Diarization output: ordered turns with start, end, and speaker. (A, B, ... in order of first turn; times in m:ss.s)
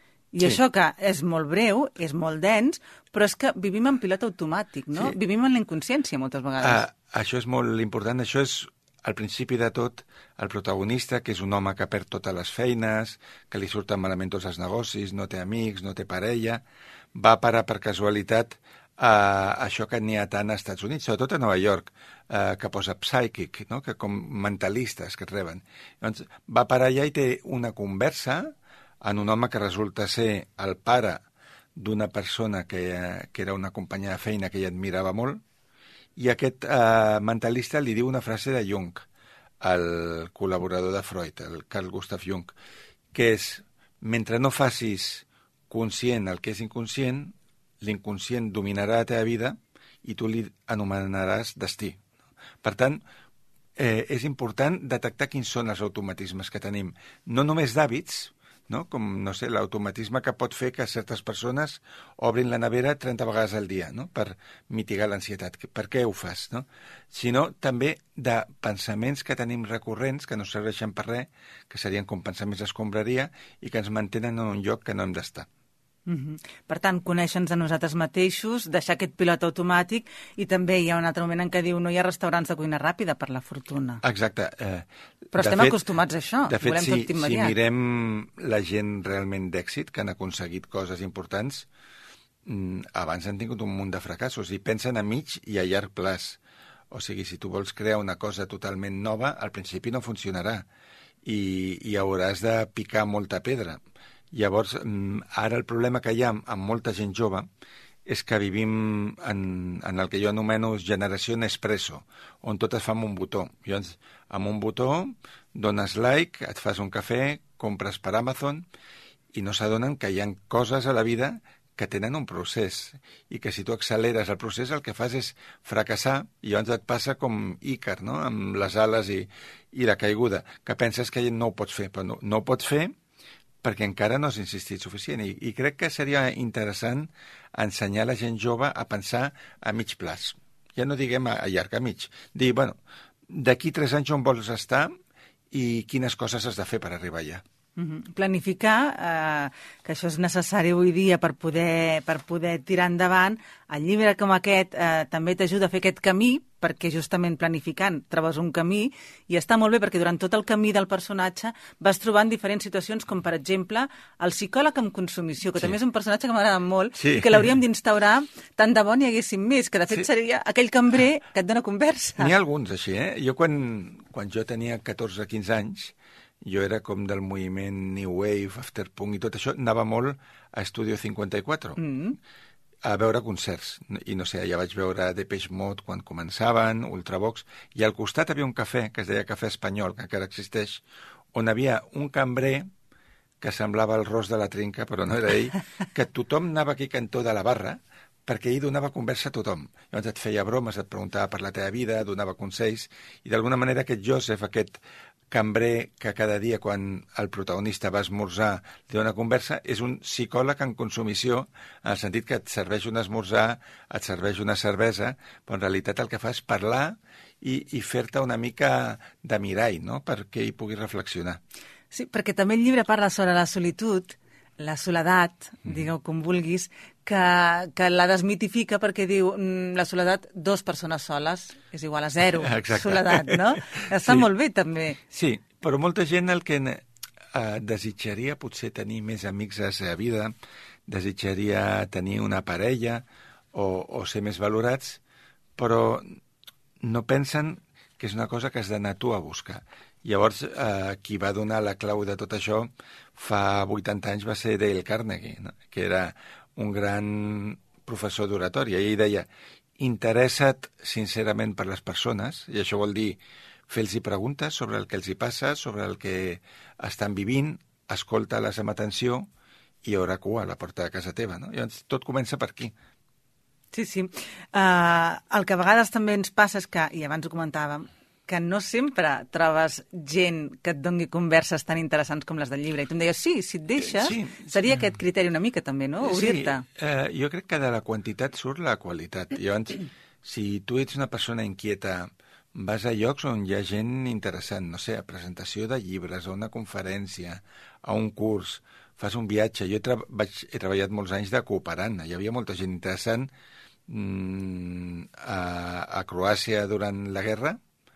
0:00.3-0:06.8 A
0:06.6-0:16.6 B
0:17.2-0:31.2 B
0:31.8-0:35.4 B
0:36.2-0:39.1 B
0:39.6-0:42.5 B
0:43.1-0:52.0 B
0:52.6-0:53.0 B
0:53.8-1:15.5 B
1:16.1-1:24.0 A
1:24.0-1:25.8 B
1:25.3-1:27.6 A
1:26.5-1:31.7 B
1:32.4-1:36.4 B
1:36.9-1:40.7 B
1:41.2-1:43.8 B
1:44.3-1:47.5 B
1:48.1-1:58.7 B
1:59.3-2:12.9 B
2:13.6-2:24.9 B
2:25.5-2:27.4 B
2:27.8-2:52.3 A
2:47.0-2:47.5 B
2:52.2-3:01.8 B
3:01.8-3:02.2 A
3:02.8-3:12.7 B
3:13.4-3:41.4 B
3:41.9-3:55.0 A
3:52.4-3:54.3 B
3:55.1-4:00.3 B
4:00.9-4:05.0 B
4:05.6-4:06.2 B
4:06.8-4:29.3 B
4:29.8-4:32.7 B
4:33.7-4:46.6 A
4:43.8-4:44.5 B
4:46.0-5:03.3 B
5:03.9-5:07.6 B